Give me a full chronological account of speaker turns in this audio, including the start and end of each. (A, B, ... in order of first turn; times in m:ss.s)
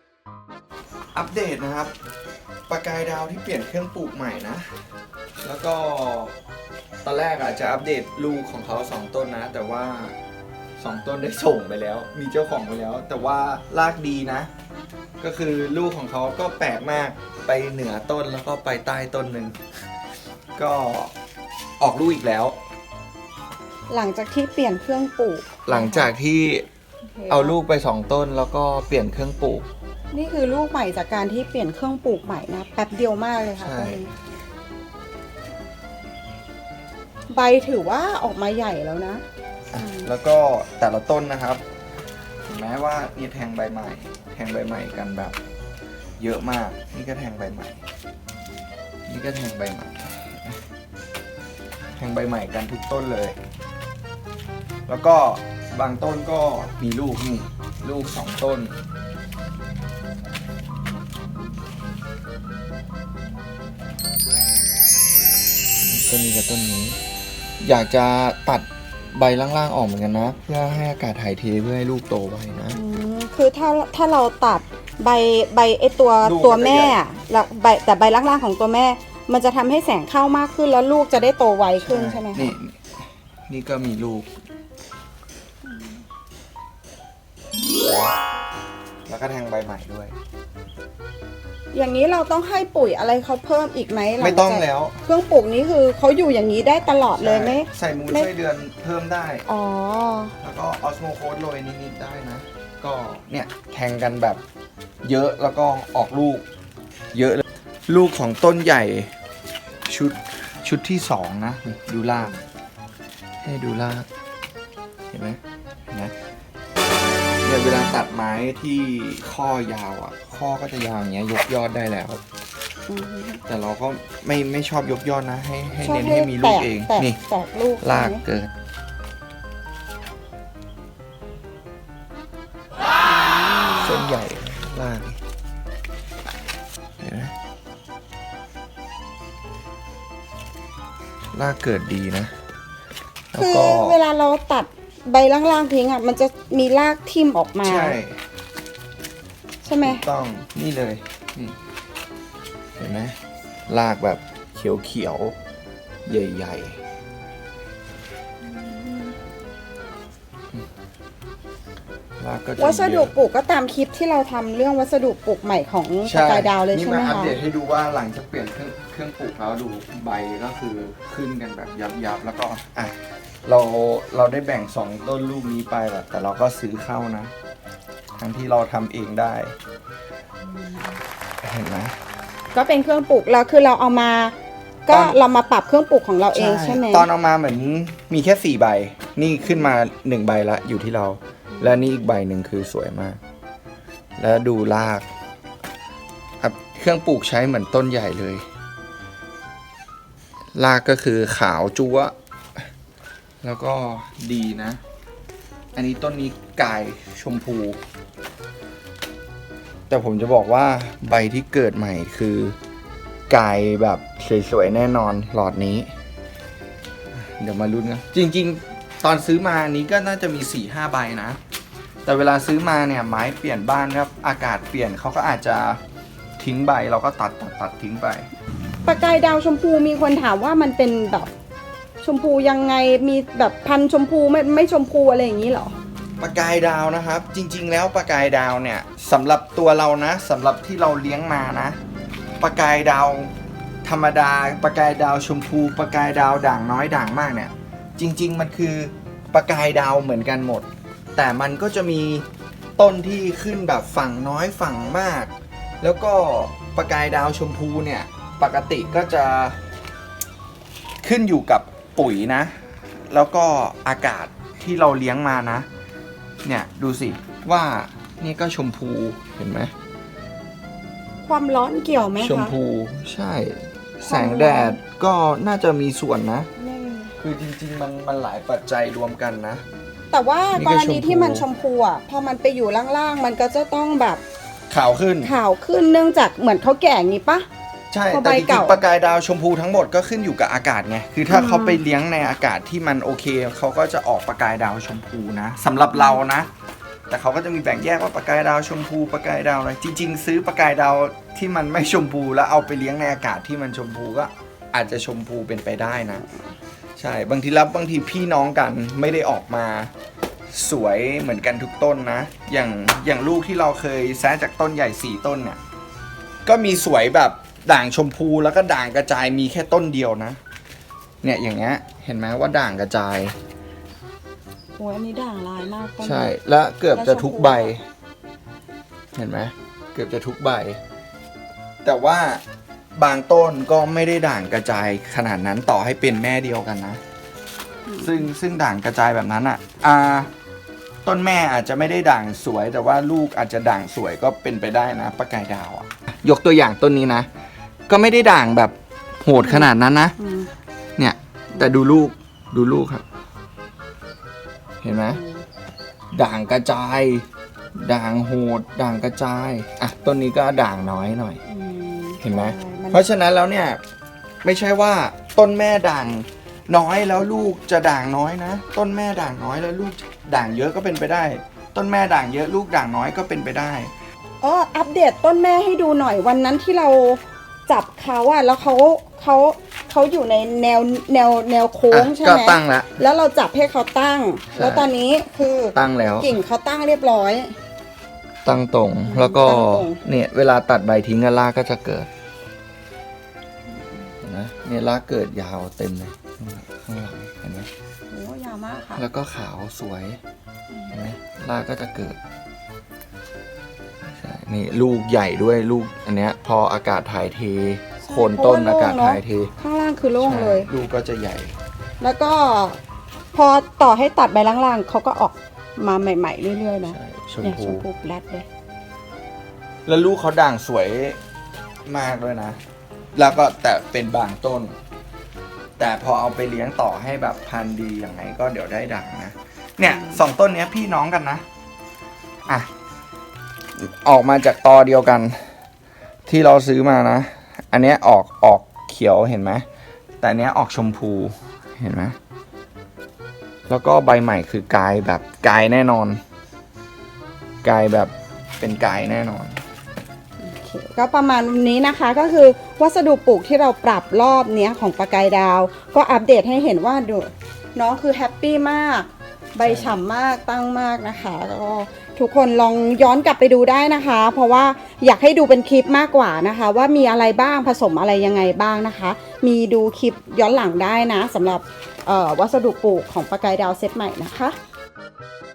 0:01.1-0:01.9 A
0:02.7-0:04.7 A
0:05.4-0:06.3 A
0:07.0-0:10.2 A
0:10.8-0:14.5 A
0:15.2-0:19.6 A
0:20.6-0:21.1 A
0:21.8-0:22.6 A
0:23.9-0:26.1 B
0:25.6-0:26.7 A
0:27.2-0:27.6 B
0:27.3-0:29.7 A
0:30.1-0:34.1 B
0:33.6-0:34.0 A
0:37.3-0:39.2 B
0:39.7-0:41.6 A
0:39.8-0:40.1 B
0:42.5-0:45.4 A
0:46.2-0:47.8 A
0:49.1-0:50.6 A
0:52.0-0:53.4 A
0:54.9-0:58.8 A
1:05.8-1:07.0 A
1:07.6-1:12.8 A
1:12.7-1:22.6 B
1:16.2-1:17.0 A
1:21.8-1:22.9 A
1:23.5-1:24.3 A
1:29.1-1:30.1 A
1:31.7-1:38.3 B
1:34.2-1:35.0 A
1:37.2-1:39.4 A
1:39.5-1:40.4 B
1:40.4-1:44.4 A
1:45.0-1:46.4 A
1:47.1-1:49.1 A
1:49.8-1:52.3 A
1:53.4-1:54.1 A
1:55.1-1:56.1 A
1:57.4-2:02.2 A
2:02.9-2:03.4 B
2:03.5-2:07.2 A
2:05.8-2:08.2 B
2:07.8-2:08.5 A
2:13.8-2:15.2 A
2:17.0-2:17.3 A
2:21.3-2:22.3 A
2:23.3-2:24.0 A
2:23.3-2:28.0 B
2:27.6-2:28.2 A
2:29.6-2:30.0 B
2:29.8-2:31.6 A
2:32.8-2:33.2 A
2:33.7-2:35.4 A
2:36.0-2:36.8 A
2:38.4-2:39.2 B
2:42.2-2:43.1 A
2:42.6-2:47.4 B
2:46.0-2:57.3 A
2:58.2-2:59.5 A
3:00.5-3:01.0 B
3:01.4-3:01.9 A
3:02.5-3:07.1 B
3:04.9-3:05.2 A
3:06.3-3:13.2 A
3:11.5-3:11.8 B
3:14.2-3:15.0 A
3:16.4-3:18.4 A
3:20.5-3:22.6 A
3:23.4-3:24.8 A
3:25.7-3:27.8 A
3:29.9-3:32.6 A
3:33.3-3:35.9 A
3:37.1-3:41.4 A
3:42.0-3:45.8 A
3:46.4-3:48.3 A
3:48.8-3:51.3 B
3:52.0-3:55.7 B
3:56.2-4:01.8 A
4:02.4-4:03.3 A
4:03.8-4:12.2 A
4:12.8-4:19.6 A
4:21.0-4:25.7 A
4:26.4-4:29.7 A
4:31.2-4:32.5 B
4:32.2-4:36.5 A
4:34.0-4:34.8 B
4:36.6-4:37.2 B
4:37.2-4:39.6 A
4:40.1-4:44.2 B
4:40.5-4:41.4 A
4:44.7-4:45.3 A
4:45.2-4:47.4 B
4:47.9-4:56.5 A
4:48.1-4:48.8 B
4:51.3-4:51.8 B
4:55.9-4:56.2 B
4:57.1-5:06.2 A
5:07.0-5:09.9 A
5:10.5-5:15.6 A
5:16.4-5:20.4 A
5:21.2-5:23.4 A
5:24.8-5:26.3 B
5:26.0-5:27.8 A
5:26.9-5:27.7 B
5:29.1-5:30.8 A
5:31.8-5:32.4 A
5:32.9-5:37.0 A
5:37.9-5:38.3 B
5:38.0-5:40.3 A
5:41.0-5:47.3 A
5:47.9-5:50.2 A
5:49.4-5:50.5 B
5:51.0-5:53.0 A
5:54.8-5:55.2 A
5:55.1-5:55.4 B
5:56.1-6:01.4 A
6:01.5-6:03.0 B
6:02.2-6:03.8 A
6:04.4-6:13.9 A
6:14.4-6:27.5 B
6:21.9-6:23.0 A
6:24.5-6:24.9 A
6:25.7-6:26.4 A
6:28.4-6:32.1 A
6:29.0-6:30.0 B
6:34.2-6:37.7 A
6:38.1-6:39.0 B
6:38.9-6:40.2 A
6:40.7-6:41.1 B
6:40.9-6:42.2 A
6:44.0-6:49.5 A
6:48.0-6:50.7 B
6:50.2-6:51.5 A
6:52.0-6:52.8 B
6:53.3-6:58.5 B
6:56.8-6:57.8 A
6:59.8-7:01.2 A
7:01.8-7:02.6 A
7:03.1-7:04.8 A
7:05.8-7:11.4 A
7:13.8-7:15.4 A
7:16.3-7:19.6 A
7:20.2-7:22.2 A
7:23.7-7:26.2 A
7:27.6-7:29.6 A
7:30.4-7:54.6 B
7:39.6-7:40.0 A